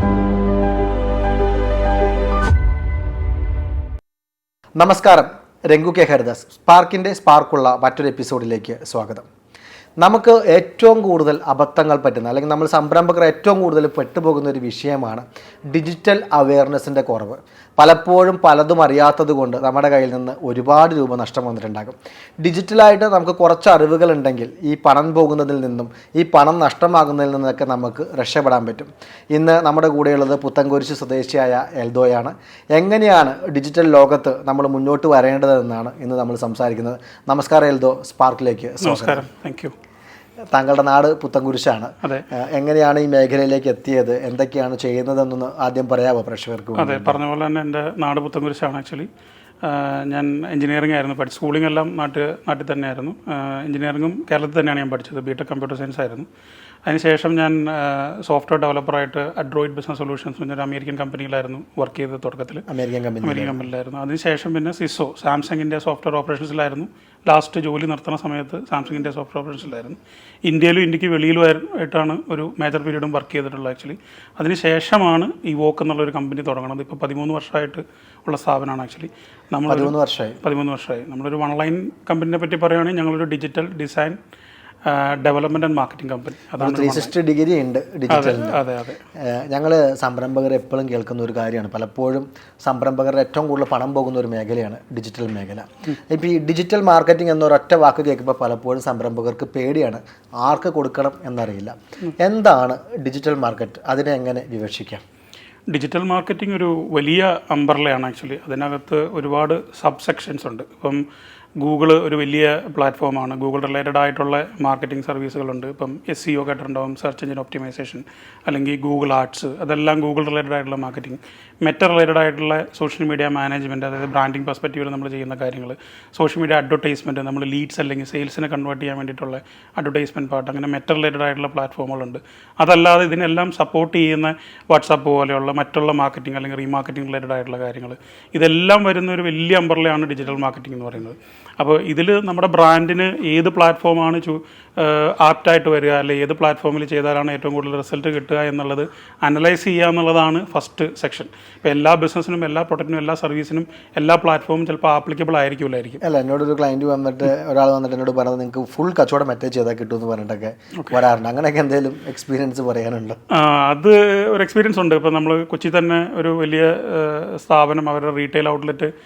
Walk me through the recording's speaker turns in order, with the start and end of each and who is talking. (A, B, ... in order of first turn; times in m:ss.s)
0:04.8-0:09.3 A
0:10.0-0:39.2 A
0:38.8-0:39.7 B
0:40.5-0:47.2 A
0:46.8-0:49.1 B
0:49.6-0:56.3 B
0:56.9-1:02.6 B
1:02.7-1:03.6 A
1:03.2-1:24.2 B
1:19.7-1:20.4 A
1:24.9-1:27.1 B
1:26.6-1:28.6 A
1:28.1-1:29.0 B
1:29.2-1:45.0 A
1:45.7-1:51.0 B
1:51.6-2:36.0 B
2:36.0-2:43.2 A
2:43.3-2:48.9 B